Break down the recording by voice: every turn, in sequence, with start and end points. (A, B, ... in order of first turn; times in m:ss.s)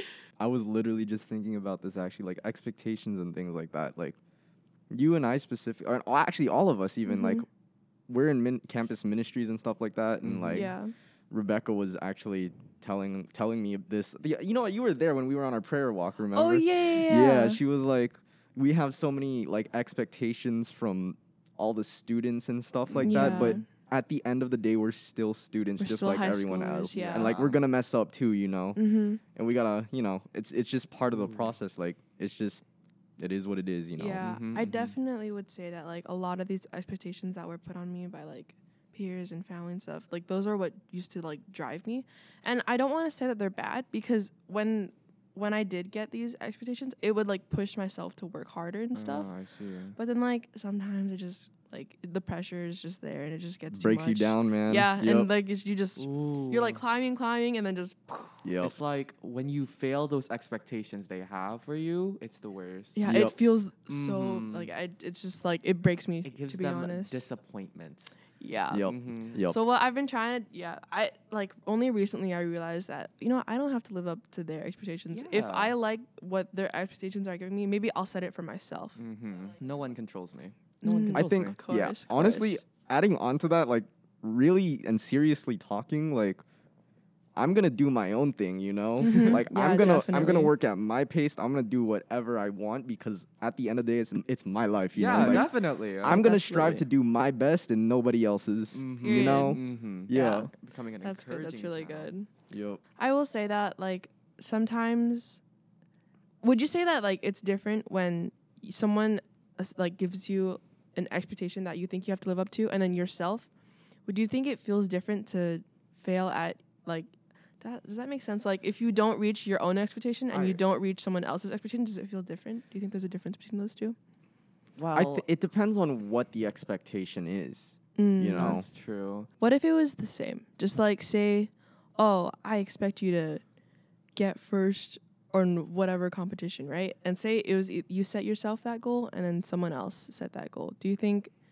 0:00.4-0:04.2 A
0:04.9-0:07.4 A
0:07.0-0:07.4 B
0:08.1-0:10.7 A
0:10.2-0:10.7 C
0:10.5-0:10.9 B
0:11.3-0:32.6 A
0:16.3-0:17.6 B
0:23.0-0:23.6 C
0:23.0-0:23.6 B
0:25.8-0:27.3 B
0:26.9-0:27.6 C
0:28.8-0:29.2 B
0:31.1-0:31.5 C
0:33.2-0:34.2 A
0:34.0-0:49.3 B
0:34.2-0:34.9 C
0:48.9-0:50.0 C
0:50.0-0:58.5 B
0:53.7-0:55.3 A
0:56.0-0:56.8 C
0:58.4-0:58.8 A
0:58.6-1:03.0 C
1:02.9-1:07.2 B
1:03.0-1:03.3 A
1:03.9-1:04.7 C
1:06.2-1:08.2 C
1:08.4-1:08.9 B
1:08.7-1:09.6 A
1:08.8-1:09.4 C
1:09.4-1:19.0 B
1:15.1-1:15.7 C
1:19.0-1:21.6 C
1:20.8-1:22.6 B
1:21.1-1:26.4 A
1:27.4-1:35.5 A
1:29.0-1:30.5 B
1:34.9-1:36.2 C
1:35.1-1:36.9 B
1:36.0-1:40.5 A
1:38.7-1:42.1 C
1:39.0-1:40.5 B
1:41.0-1:42.3 B
1:42.5-1:42.8 A
1:43.0-1:45.4 B
1:46.4-1:53.5 B
1:54.0-2:04.0 B
2:00.3-2:00.6 C
2:04.8-2:05.2 C
2:04.9-2:08.6 A
2:08.0-2:08.7 B
2:08.3-2:09.3 C
2:09.4-2:13.4 B
2:14.1-2:21.3 B